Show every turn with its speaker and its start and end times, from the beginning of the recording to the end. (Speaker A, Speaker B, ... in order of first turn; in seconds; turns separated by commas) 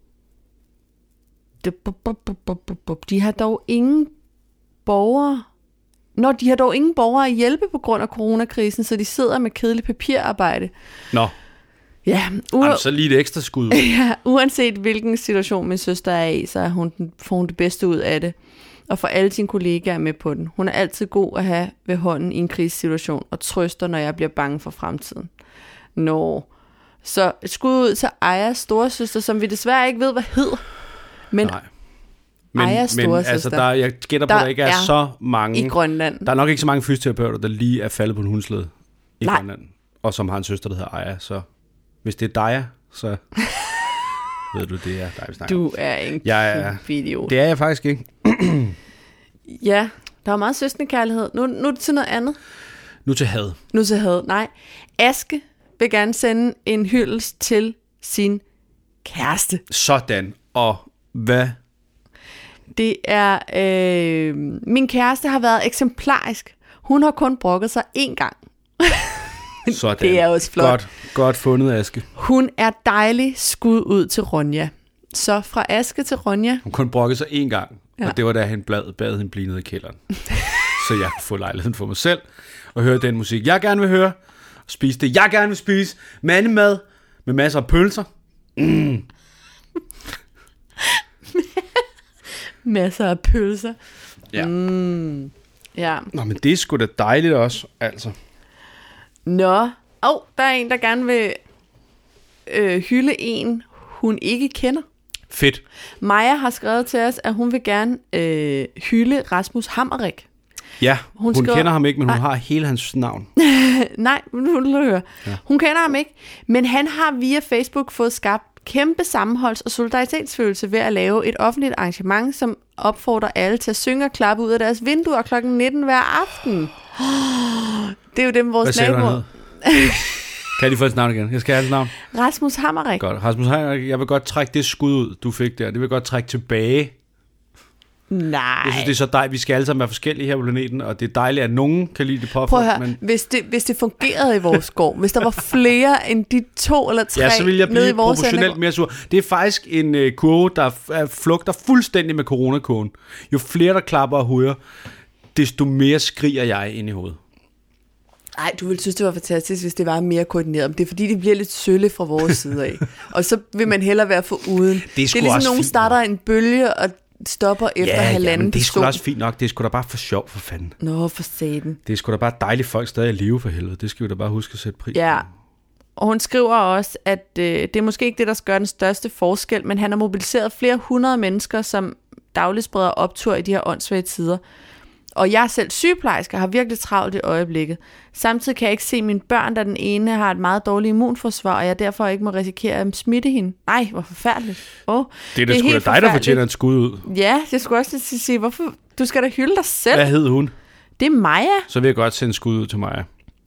Speaker A: 1.6-4.1, Speaker A: 4.8-5.5, Speaker A: 6.2-10.7, Speaker A: 12.1-12.8, Speaker B: 12.6-13.8, Speaker A: 13.7-18.3, Speaker A: 18.9-25.3, Speaker A: 25.9-26.5, Speaker A: 27.0-30.6, Speaker A: 31.3-31.6, Speaker B: 32.5-41.4, Speaker A: 32.5-33.6, Speaker A: 34.3-34.9, Speaker A: 35.5-36.3, Speaker B: 42.0-43.2, Speaker B: 44.5-45.6, Speaker A: 45.5-47.3, Speaker B: 46.2-48.8, Speaker A: 49.5-52.4, Speaker B: 53.0-53.6, Speaker A: 53.7-58.4, Speaker A: 59.0-59.6, Speaker B: 59.7-61.6, Speaker A: 62.8-70.8, Speaker B: 69.7-72.1, Speaker A: 72.2-76.6, Speaker B: 76.6-80.0, Speaker B: 80.6-82.2, Speaker B: 82.7-84.2, Speaker B: 84.7-89.0, Speaker A: 90.8-91.8, Speaker A: 92.6-93.8, Speaker A: 94.3-96.1, Speaker B: 96.1-98.1, Speaker A: 99.2-101.4, Speaker A: 102.5-104.8, Speaker B: 105.3-105.6, Speaker A: 106.0-110.3, Speaker B: 110.8-113.3, Speaker A: 111.2-112.2, Speaker A: 113.3-130.3, Speaker B: 128.6-129.2, Speaker B: 130.5-131.9, Speaker A: 132.0-133.0, Speaker B: 133.0-136.9, Speaker A: 138.1-138.9, Speaker B: 138.6-143.0, Speaker A: 142.4-148.6, Speaker B: 147.1-154.6, Speaker B: 155.3-157.2, Speaker A: 158.4-169.0, Speaker B: 164.9-166.0, Speaker B: 167.8-170.7, Speaker A: 170.8-171.8, Speaker B: 171.8-175.2, Speaker A: 174.9-175.2, Speaker A: 175.9-184.4, Speaker A: 185.1-196.4, Speaker B: 195.3-197.1, Speaker A: 197.0-200.1, Speaker B: 199.9-200.5, Speaker A: 201.0-201.7, Speaker B: 201.7-203.1